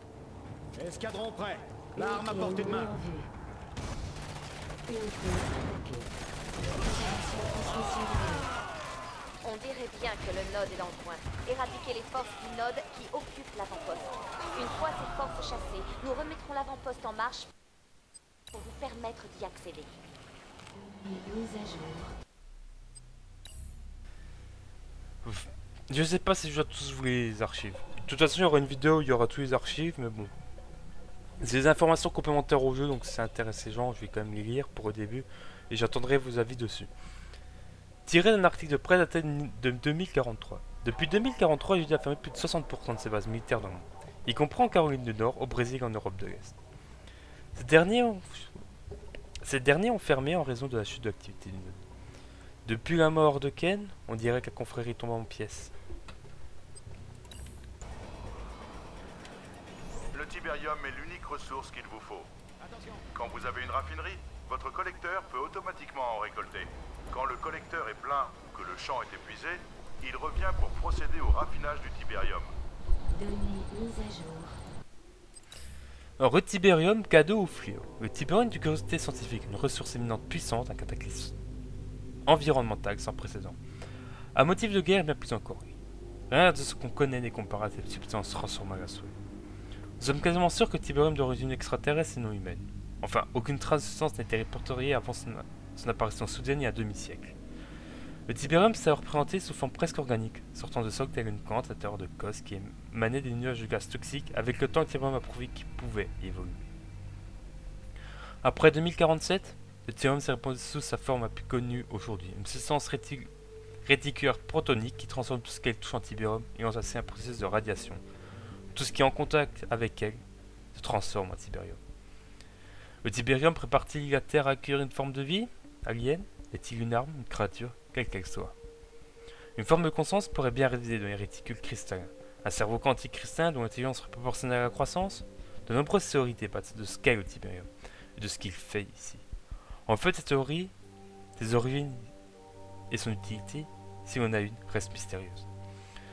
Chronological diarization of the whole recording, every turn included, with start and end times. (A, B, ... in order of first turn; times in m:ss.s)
0:00.8-0:02.9 A
0:01.9-0:03.3 B
0:04.9-0:06.1 B
0:06.8-0:08.5 B
0:09.4-0:17.5 C
0:18.5-0:20.0 C
0:20.7-0:22.1 B
0:25.2-0:30.3 D
0:31.4-0:36.9 D
0:38.0-0:46.6 D
0:47.6-0:48.5 D
0:49.4-0:51.7 D
0:52.6-0:55.7 D
1:00.1-1:02.3 E
1:02.6-1:03.0 A
1:03.1-1:12.5 E
1:13.1-1:14.6 B
1:16.2-1:21.3 D
1:22.2-1:23.6 D
1:24.3-1:25.7 D
1:26.3-1:29.1 D
1:30.0-1:37.3 D
1:38.3-1:46.6 D
1:48.4-1:53.3 D
1:53.8-1:58.0 D
1:58.7-2:00.2 D
2:00.7-2:01.8 D
2:03.0-2:08.5 D
2:09.6-2:19.2 D
2:19.9-2:20.7 D
2:21.4-2:22.1 D
2:22.9-2:25.4 D